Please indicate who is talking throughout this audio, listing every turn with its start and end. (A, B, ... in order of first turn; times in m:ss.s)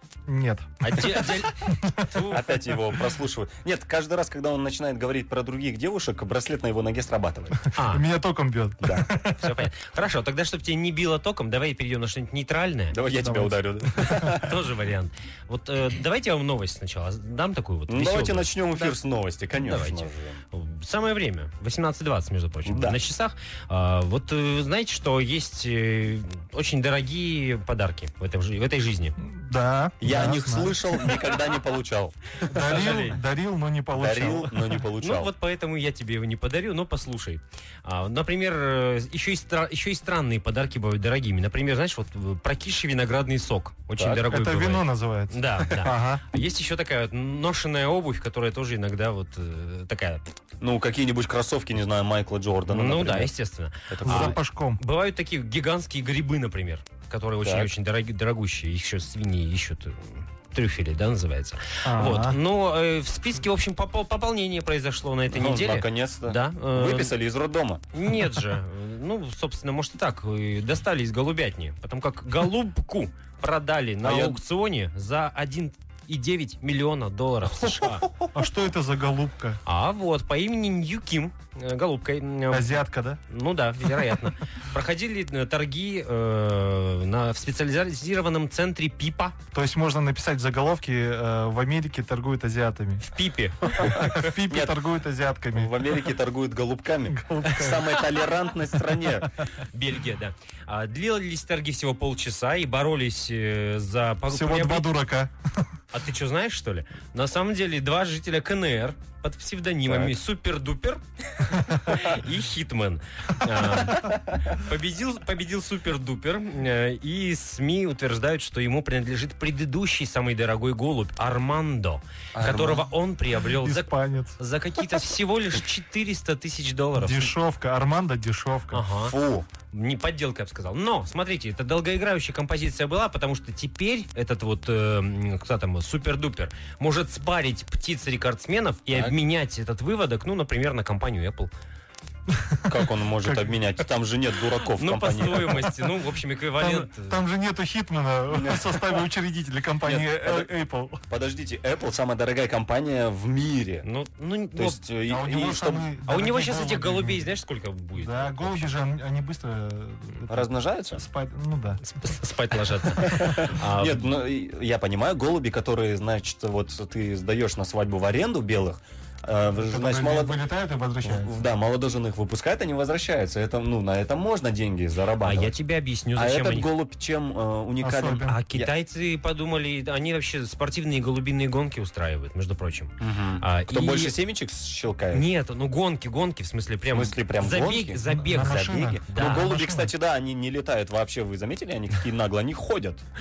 0:00.3-0:02.0 A
0:00.8-0:02.6 B
0:02.3-0:07.6 C
0:07.7-0:09.6 A
0:07.7-0:08.0 B
0:08.8-0:09.1 C
0:09.4-0:13.0 B
0:12.9-0:14.6 C
0:13.2-0:14.3 A
0:14.3-0:19.0 B
0:17.9-0:20.4 C
0:19.6-0:29.1 B
0:22.6-0:23.0 C
0:29.2-0:30.9 A
0:30.0-0:32.2 C
0:32.5-0:33.2 B
0:32.5-0:34.8 A
0:33.9-0:35.3 C
0:35.0-0:50.2 B
0:44.0-0:44.2 C
0:44.2-0:46.2 A
0:50.6-0:53.3 C
0:52.7-1:07.1 B
0:53.9-0:54.4 C
0:54.0-0:54.8 A
0:57.4-0:57.7 C
1:01.8-1:02.4 A
1:05.3-1:07.8 C
1:07.9-1:18.0 B
1:14.0-1:14.4 C
1:17.6-1:18.2 C
1:18.3-1:19.6 A
1:19.6-1:29.4 B
1:22.5-1:23.2 A
1:29.5-1:33.1 A
1:33.1-1:34.3 B
1:33.8-1:34.8 C
1:33.8-1:35.7 A
1:35.5-1:39.3 C
1:37.1-1:37.9 A
1:39.6-1:44.9 B
1:44.3-1:45.3 A
1:45.9-2:07.3 B
1:49.8-1:50.2 C
1:54.0-1:54.5 C
2:02.3-2:02.8 C
2:03.6-2:04.4 A
2:06.9-2:08.8 A
2:08.7-2:09.1 B
2:09.0-2:09.5 C
2:09.7-2:21.5 B
2:18.9-2:19.2 C
2:22.7-2:25.7 C
2:23.2-2:23.5 A
2:24.8-2:27.1 B
2:26.6-2:31.0 A
2:28.3-2:29.0 C
2:29.8-2:30.5 C
2:31.1-2:33.9 C
2:33.8-2:34.8 B
2:34.6-2:35.9 C
2:35.1-2:37.3 A
2:36.1-2:38.7 B
2:37.9-2:41.8 A
2:40.3-2:41.0 C
2:41.8-2:44.0 B
2:43.0-2:50.4 C
2:49.5-2:51.3 A
2:51.0-2:55.6 C
2:55.2-2:56.7 B
2:56.1-2:58.7 C
2:57.8-2:58.4 A
2:58.2-3:04.1 B
3:03.0-3:05.3 C
3:05.1-3:09.5 B
3:06.9-3:13.0 C
3:08.2-3:09.9 A